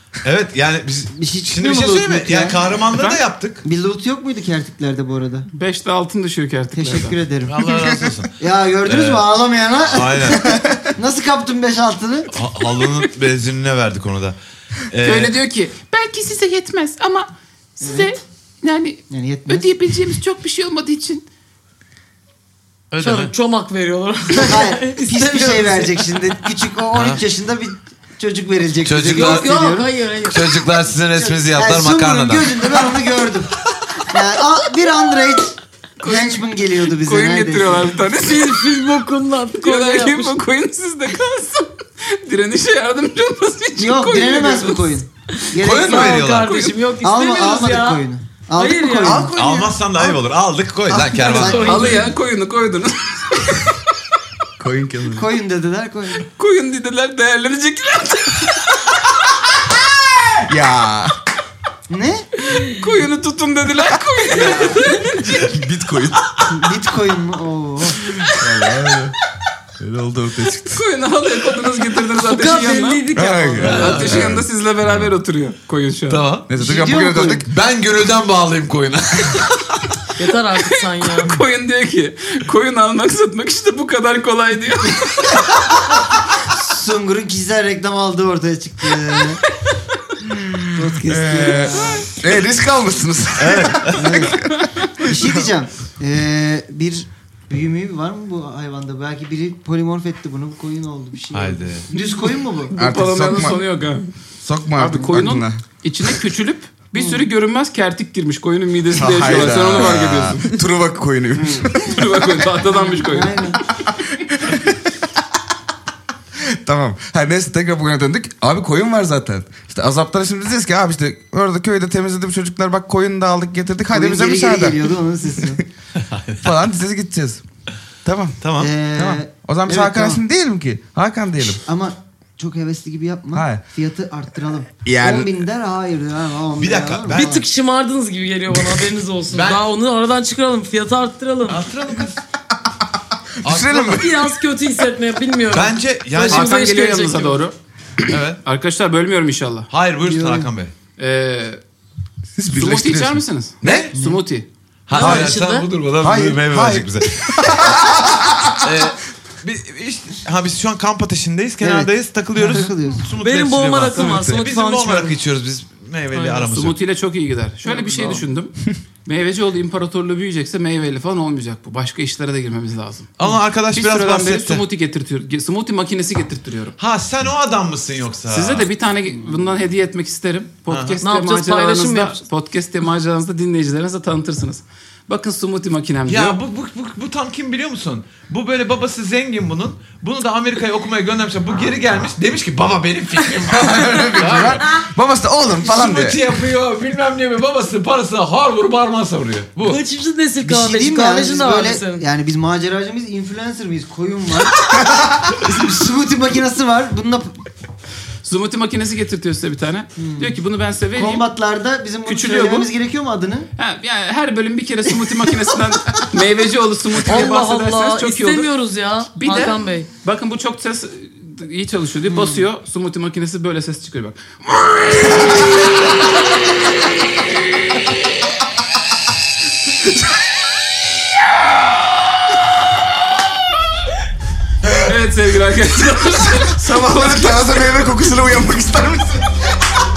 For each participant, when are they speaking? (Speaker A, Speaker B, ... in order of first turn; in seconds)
Speaker A: 0.2-3.6, 7.5-9.3, 9.9-10.5, 12.3-15.4, 22.9-23.3, 26.9-27.2, 28.8-29.5, 30.2-32.8, 45.6-46.6, 49.3-51.9, 73.6-74.2, 76.1-76.5, 77.5-79.7, 93.4-94.3, 101.3-101.9, 126.0-126.5, 128.4-128.7, 136.6-137.3, 139.3-139.6, 141.5-142.2, 143.4-144.1, 145.5-146.5, 148.1-148.4, 149.7-150.7, 153.6-153.9, 154.9-157.8, 158.6-166.8, 173.2-174.6, 176.8-178.7, 180.7-181.0, 186.1-194.8, 195.6-199.8
Speaker B: 1.1-2.6, 3.6-5.5, 6.8-7.6, 8.4-12.3, 17.8-18.1, 19.1-19.7, 24.4-29.9, 31.1-37.9, 43.8-46.3, 47.0-49.3, 50.9-51.9, 55.1-56.3, 61.9-62.3, 64.3-64.9, 66.5-68.0, 76.6-77.5, 86.5-89.4, 90.7-92.1, 93.9-94.5, 95.0-102.7, 107.0-107.3, 112.6-113.7, 123.9-125.6, 128.6-130.2, 131.4-137.5, 150.0-150.5, 153.9-154.2, 161.6-163.1, 200.4-207.4, 210.0-210.4, 210.9-213.5, 222.1-222.5
Speaker C: 5.5-7.2, 15.0-21.2, 36.0-38.8, 39.6-45.0, 46.4-46.8, 51.6-53.8, 56.4-59.1, 62.5-65.5, 68.0-68.4, 70.6-73.1, 73.6-76.2, 80.6-85.5, 94.4-95.0, 102.7-104.1, 104.8-110.6, 111.7-113.6, 146.3-147.5, 148.4-149.7, 151.0-151.6, 152.5-154.5, 166.5-176.8, 178.3-186.4, 208.2-211.2, 212.1-212.7, 213.6-218.5, 219.1-225.2, 234.7-236.6
Speaker D: 7.7-8.0, 10.4-10.9, 49.0-49.8, 54.6-55.3, 60.4-61.1, 65.4-66.2, 68.3-69.2, 69.8-70.8, 73.1-74.5, 76.5-77.5, 90.4-95.5, 102.8-103.7, 104.4-106.2, 108.9-112.5, 113.9-114.8, 116.5-125.6, 126.4-127.4, 128.1-128.4, 128.9-131.6, 133.3-133.6, 134.8-135.4, 143.4-144.1, 152.4-153.2, 155.0-155.3, 156.0-158.7, 193.5-196.2, 204.8-205.3, 234.6-234.9, 236.2-239.4
Speaker E: 23.0-26.1, 29.1-30.5, 38.2-40.4, 45.7-48.0, 48.6-49.3, 51.2-52.1, 72.2-74.3, 80.2-81.4, 137.1-141.6, 143.9-147.4, 154.9-155.7, 163.2-165.2, 166.1-166.5, 167.7-168.2, 181.0-182.2, 199.6-202.1, 217.0-219.9